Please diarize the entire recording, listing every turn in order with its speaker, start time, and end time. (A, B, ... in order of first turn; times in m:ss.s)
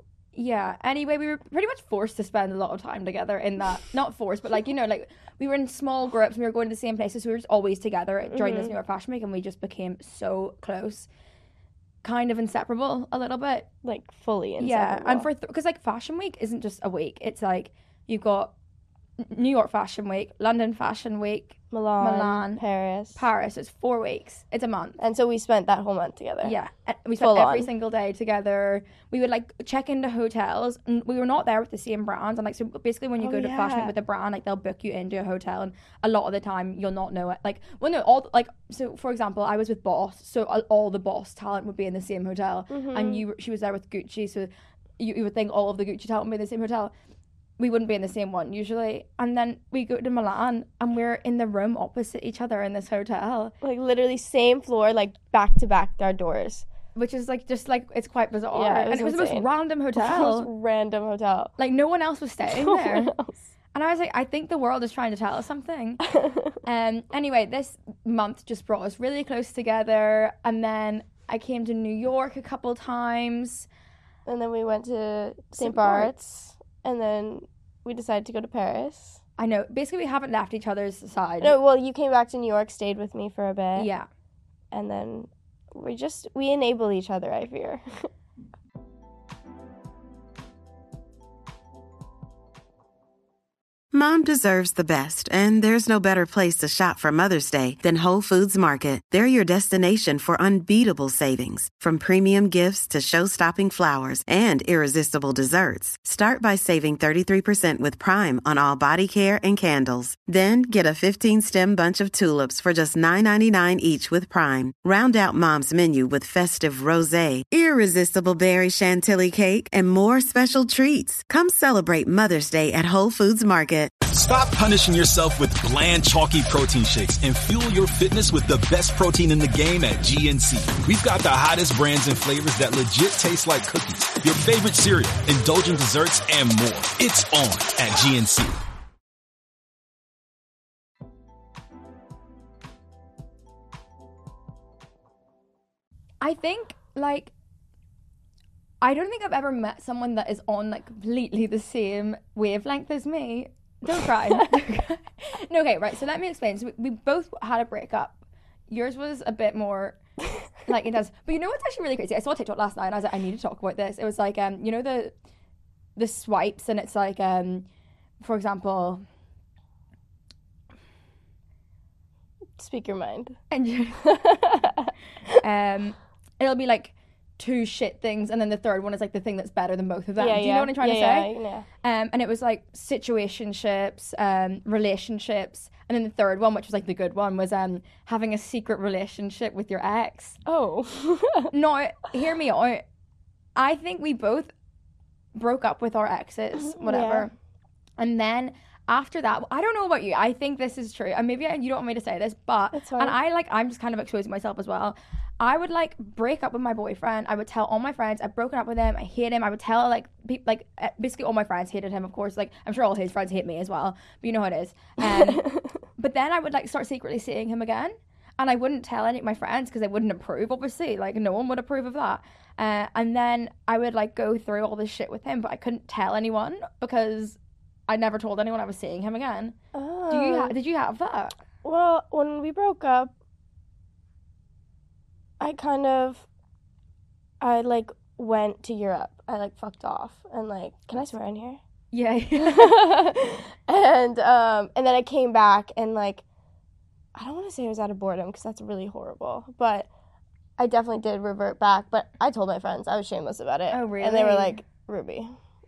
0:00.3-0:11.1 A
0:08.3-0:08.7 B
0:12.0-0:13.7 A
0:13.8-0:15.3 B
0:14.6-0:18.5 A
0:19.2-0:22.6 A
0:21.7-0:23.2 B
0:23.2-0:25.0 A
0:25.0-0:26.5 B
0:26.4-0:46.9 A
0:27.2-0:27.7 B
0:33.2-0:33.9 B
0:42.7-0:43.2 B
0:47.6-0:53.5 A
0:53.6-0:56.6 B
0:56.9-1:00.5 A
0:58.5-1:01.5 B
1:01.6-1:03.1 A
1:02.5-1:03.5 B
1:03.7-1:06.0 A
1:06.1-1:06.5 B
1:06.6-1:13.7 A
1:14.2-1:19.2 B
1:15.5-1:16.1 A
1:19.4-1:21.6 A
1:21.4-1:23.9 B
1:23.7-1:24.1 A
1:24.7-1:28.1 B
1:33.9-2:03.9 C
2:04.1-2:18.6 D
2:26.2-2:27.3 A
2:28.8-2:38.2 A
2:38.7-2:40.0 A
2:40.6-2:45.1 A
2:46.0-2:47.6 A
2:48.2-2:49.0 A
2:52.6-2:53.4 B
2:53.5-2:54.6 A
2:54.0-2:54.9 B
2:55.4-3:10.4 A
3:00.2-3:01.7 B
3:10.4-3:11.5 B
3:11.5-3:12.8 A
3:13.6-3:14.5 A
3:15.3-3:17.3 A
3:16.6-3:17.3 B
3:18.0-3:35.4 A
3:22.7-3:23.2 B
3:35.3-3:35.7 B
3:36.0-3:47.4 A
3:47.9-3:49.6 A
3:49.7-3:50.5 B
3:50.1-3:51.3 A
3:51.6-3:53.1 B
3:55.4-3:56.2 B
3:57.4-4:01.6 B
4:01.9-4:03.1 A
4:02.4-4:06.2 B
4:07.1-4:09.9 B
4:10.6-4:15.3 B
4:13.7-4:14.6 A